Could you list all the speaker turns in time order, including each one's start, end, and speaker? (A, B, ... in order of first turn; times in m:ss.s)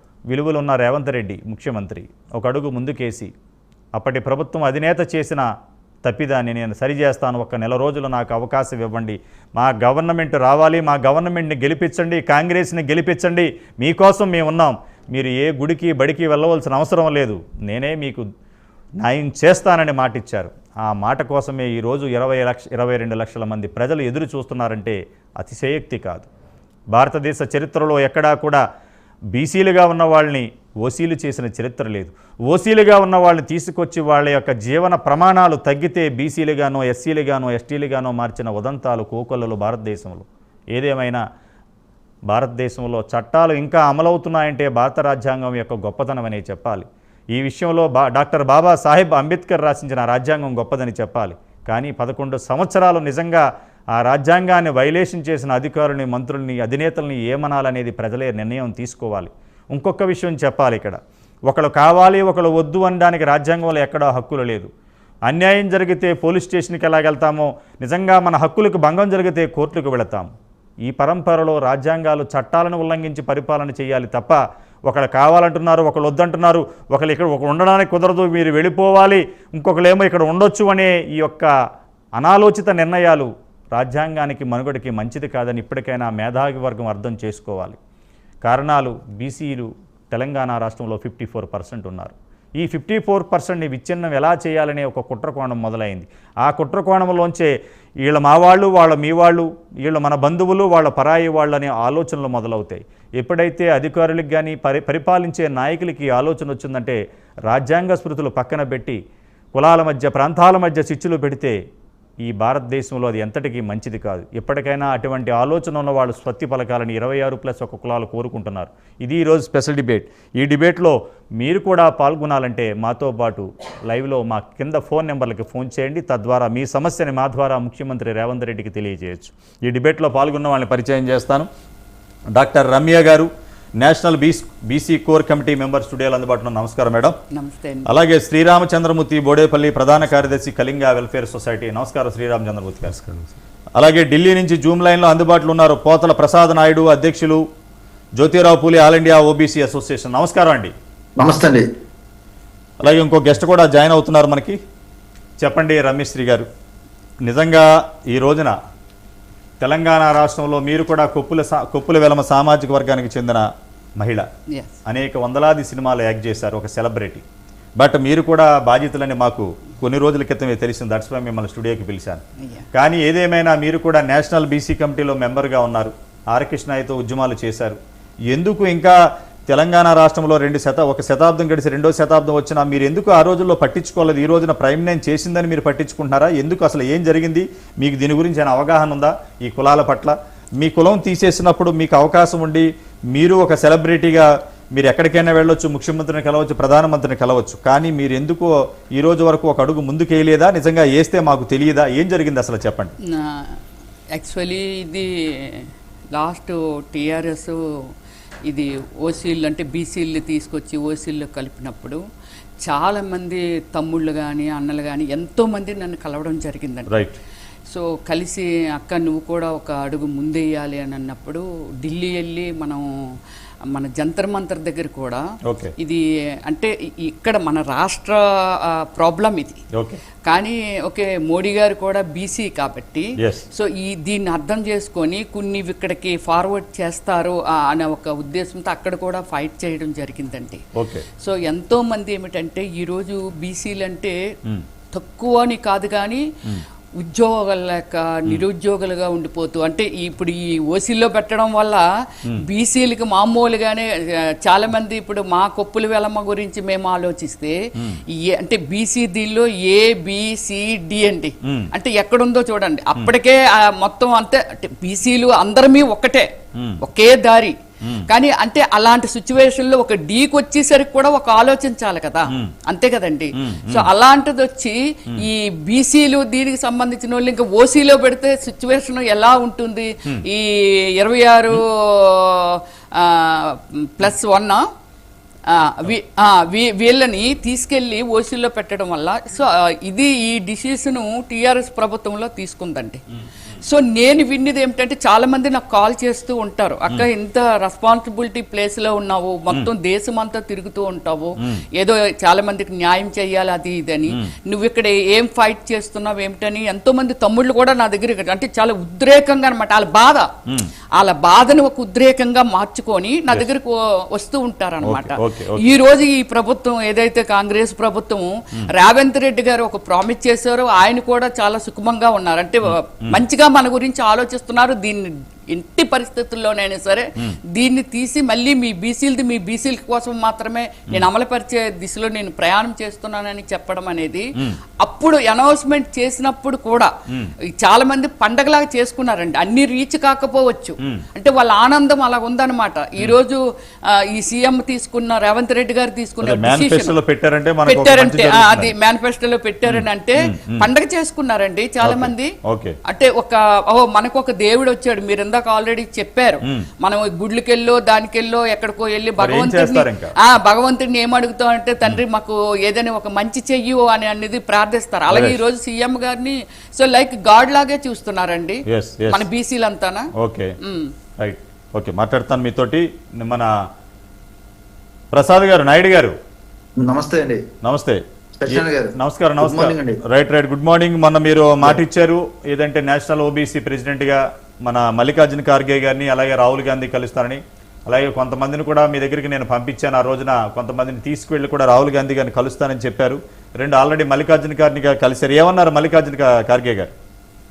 0:00.3-0:03.3 A
0:04.0-0:05.4 A
0:06.0-0:18.2 A
0:19.0-0:26.3 A
0:26.9-0:28.6 A
0:29.3-0:41.2 A
0:42.3-0:53.4 A
0:54.0-1:01.0 A
1:01.5-1:04.7 A
1:05.3-1:10.3 A
1:10.8-1:21.5 A
1:22.2-1:27.8 A
1:28.4-1:37.5 A
1:38.0-1:49.0 A
1:49.5-1:51.6 A
1:52.2-2:11.5 A
2:12.3-2:13.3 A
2:13.8-2:17.2 A
2:17.3-2:17.9 B
2:17.8-2:27.4 A
2:28.2-2:30.7 A
2:31.2-2:31.7 C
2:32.8-2:34.6 A
2:35.4-2:36.5 A
2:37.2-2:38.6 A
2:39.6-2:43.4 A
2:44.0-2:44.3 A
2:44.8-2:47.2 A
2:47.8-2:52.2 A
2:52.7-2:57.8 A
2:58.3-3:22.9 A
3:23.1-3:23.6 B
3:24.1-3:27.6 B
3:28.5-3:32.0 B
3:32.6-3:36.9 B
3:36.9-3:37.2 A
3:37.7-3:42.8 B
3:43.7-3:45.2 B
3:45.4-3:45.7 A
3:45.8-3:49.6 B
3:49.7-3:50.0 A
3:50.2-4:00.6 B
3:53.2-3:53.4 A
4:00.8-4:01.0 A
4:01.2-4:04.2 B
4:04.9-4:06.3 B
4:07.0-4:26.3 B
4:21.4-4:21.7 A
4:26.8-4:27.6 B
4:28.1-4:44.6 B
4:33.4-4:33.9 A
4:45.5-4:53.0 B
4:53.6-5:10.3 B
5:01.4-5:01.6 A
5:11.0-5:36.9 B
5:14.8-5:15.8 A
5:22.7-5:23.2 A
5:37.1-5:37.3 A
5:37.6-5:47.0 B
5:46.2-5:48.7 A
5:47.6-5:52.3 B
5:49.6-5:50.7 A
5:51.8-5:52.8 A
5:52.9-6:10.1 B
5:59.2-6:00.2 A
6:05.1-6:05.4 A
6:08.6-6:09.2 A
6:10.2-6:10.6 A
6:10.6-6:10.9 B
6:11.2-6:13.5 A
6:15.1-6:16.1 A
6:16.8-6:17.4 C
6:17.6-6:36.9 A
6:18.4-6:20.0 C